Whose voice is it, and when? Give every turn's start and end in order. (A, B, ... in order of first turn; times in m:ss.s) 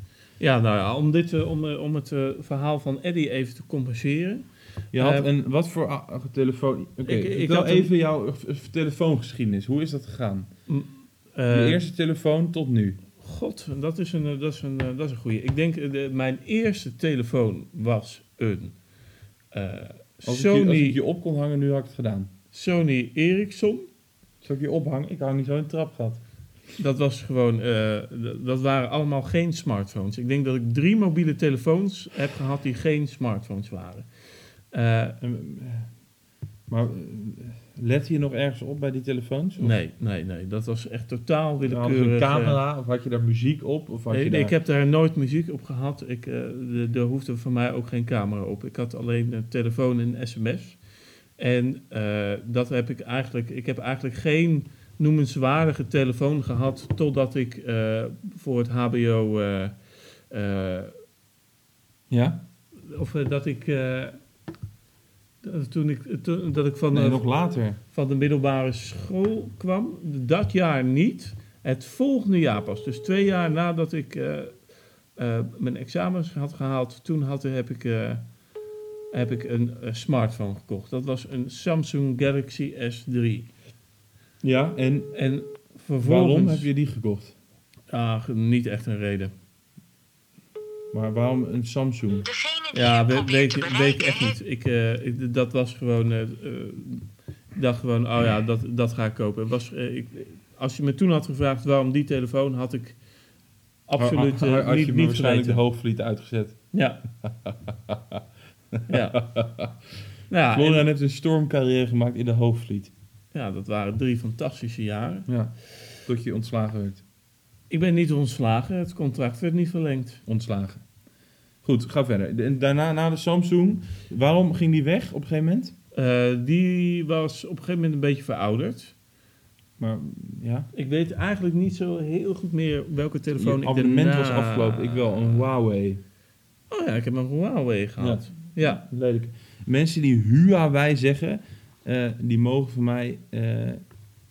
0:00.4-0:05.3 A
0:04.9-0:10.6 B
0:07.0-0:07.9 A
0:10.7-0:11.8 A
0:11.5-0:13.0 B
0:13.2-0:18.8 A
0:19.5-0:21.0 A
0:20.2-0:22.3 B
0:22.5-0:23.9 A
0:24.4-0:26.2 B
0:26.8-0:35.2 A
0:35.2-0:36.0 B
0:36.7-0:39.8 B
0:39.6-0:42.6 A
0:41.6-0:44.5 B
0:44.1-0:50.8 A
0:51.4-0:59.8 A
1:00.3-1:00.9 A
1:02.1-1:02.4 B
1:02.8-1:04.2 A
1:05.4-1:14.6 A
1:06.9-1:07.8 B
1:15.2-1:18.2 A
1:19.1-1:23.5 A
1:24.4-1:25.1 B
1:25.1-1:26.7 A
1:26.0-1:27.3 B
1:27.9-1:29.3 A
1:30.9-1:32.3 B
1:32.2-1:34.4 C
1:32.7-1:43.0 A
1:43.8-1:45.6 A
1:44.0-1:46.7 B
1:46.7-1:47.0 A
1:47.2-1:48.2 B
1:48.7-1:49.8 B
1:48.9-1:49.2 A
1:50.3-1:50.9 A
1:50.5-1:52.9 B
1:53.3-1:55.3 A
1:55.2-1:57.0 B
1:57.7-2:00.2 A
2:00.2-2:00.8 B
2:01.6-2:05.7 B
2:05.9-2:08.9 A
2:09.8-2:10.7 B
2:10.7-2:15.5 A
2:13.4-2:16.0 B
2:16.7-2:18.8 A
2:18.0-2:23.8 B